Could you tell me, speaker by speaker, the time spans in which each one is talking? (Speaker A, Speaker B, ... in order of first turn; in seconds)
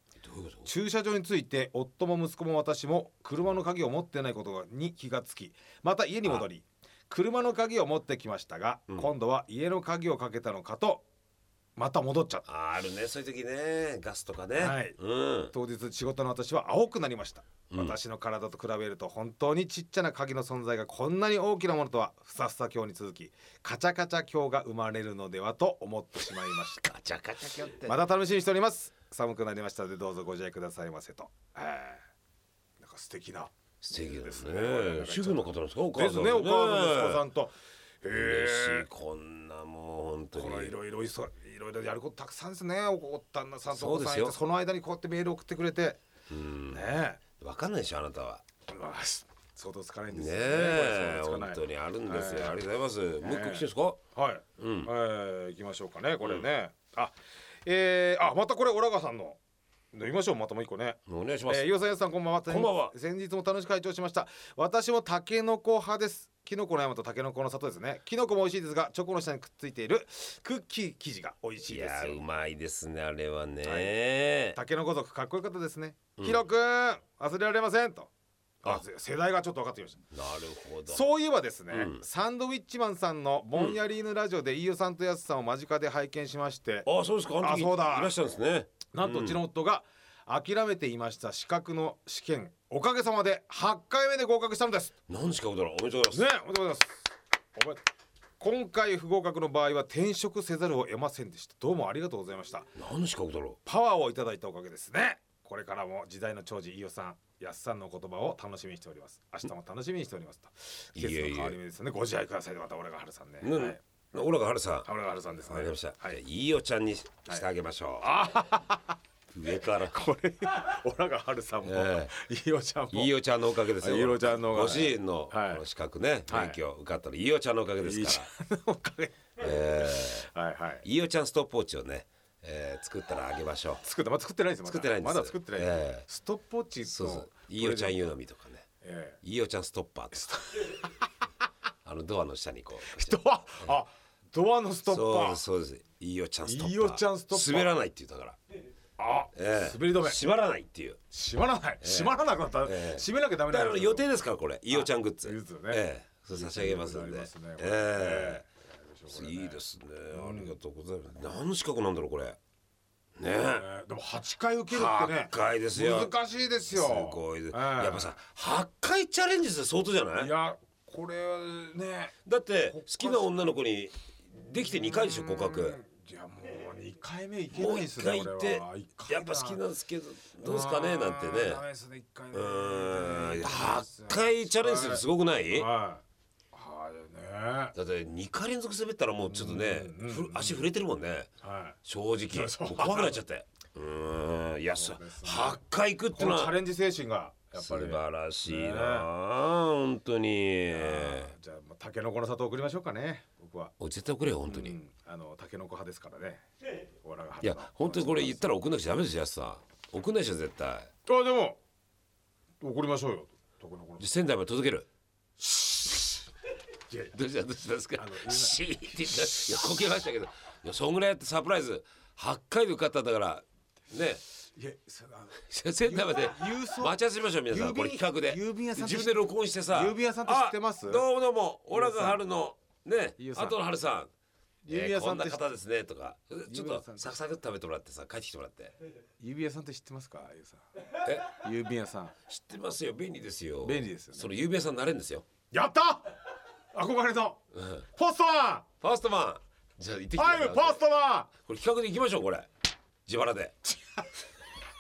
Speaker A: 0.2-0.7, 12.5-15.5, 17.7-18.0, 26.8-28.1, 33.8-37.2, 38.1-40.8, 43.7-44.4, 46.3-46.9, 47.4-48.5, 50.1-54.0, 54.6-54.9, 61.1-61.7, 62.5-62.9, 71.7-74.6, 76.2-76.4, 80.1-81.0, 81.7-82.0, 86.9-89.4, 95.1-96.3, 102.8-103.6, 111.0-111.6, 113.4-114.9, 115.5-118.1, 119.3-120.0, 121.7-122.1, 122.9-128.3, 129.4-130.3, 130.8-133.8, 134.7-136.1, 136.8-138.7, 139.2-140.3, 141.8-143.7, 144.9-148.4, 149.3-151.0, 151.8-158.4, 159.1-162.4, 163.2-163.7, 164.7-166.1, 166.7-170.3, 172.2-175.8, 177.5-181.6, 182.3-185.7, 187.7-191.3, 191.8-196.6, 197.6-201.3, 203.8-204.8, 207.4-210.9, 214.0-214.9, 217.1-224.2, 225.4-234.1, 234.7-238.8, 241.0-241.4, 242.3-245.3, 247.6-247.8, 248.8-250.8, 251.4-252.5, 253.1-253.6
Speaker B: 0.7-11.1, 11.8-12.4, 14.6-15.0, 15.5-26.9, 27.9-32.0, 32.8-38.9, 40.4-46.0, 46.7-47.2, 48.7-52.6, 53.2-59.4, 59.9-72.2, 73.6-73.9, 74.5-78.1, 78.6-80.0, 80.9-88.2, 88.9-94.9, 96.1-97.0, 97.6-97.8, 98.4-102.7, 103.7-113.8, 114.8-116.2, 118.0-118.9, 119.7-123.1, 123.7-125.6, 126.3-126.6, 127.8-130.8, 133.8-138.1, 138.8-139.2, 140.1-140.9, 142.9-145.4, 146.4-147.7, 149.0-150.2, 151.1-154.1, 154.7-160.6, 163.4-168.2, 170.2-172.2, 172.7-173.6, 174.6-179.6, 180.4-187.7, 189.2-190.7, 191.4-191.8, 192.3-193.2, 194.7-195.6, 196.1-199.1, 200.7-203.7, 204.5-206.4, 207.0-208.5, 211.1-211.6, 212.6-214.0, 215.4-216.0, 216.9-217.2, 218.0-218.6, 224.6-231.1, 231.7-232.2, 233.2-233.6, 234.7-235.5, 236.5-237.2, 239.2-240.6, 241.2-242.2, 243.6-244.3, 245.5-246.1, 246.7-247.4, 247.9-248.7, 250.1-251.3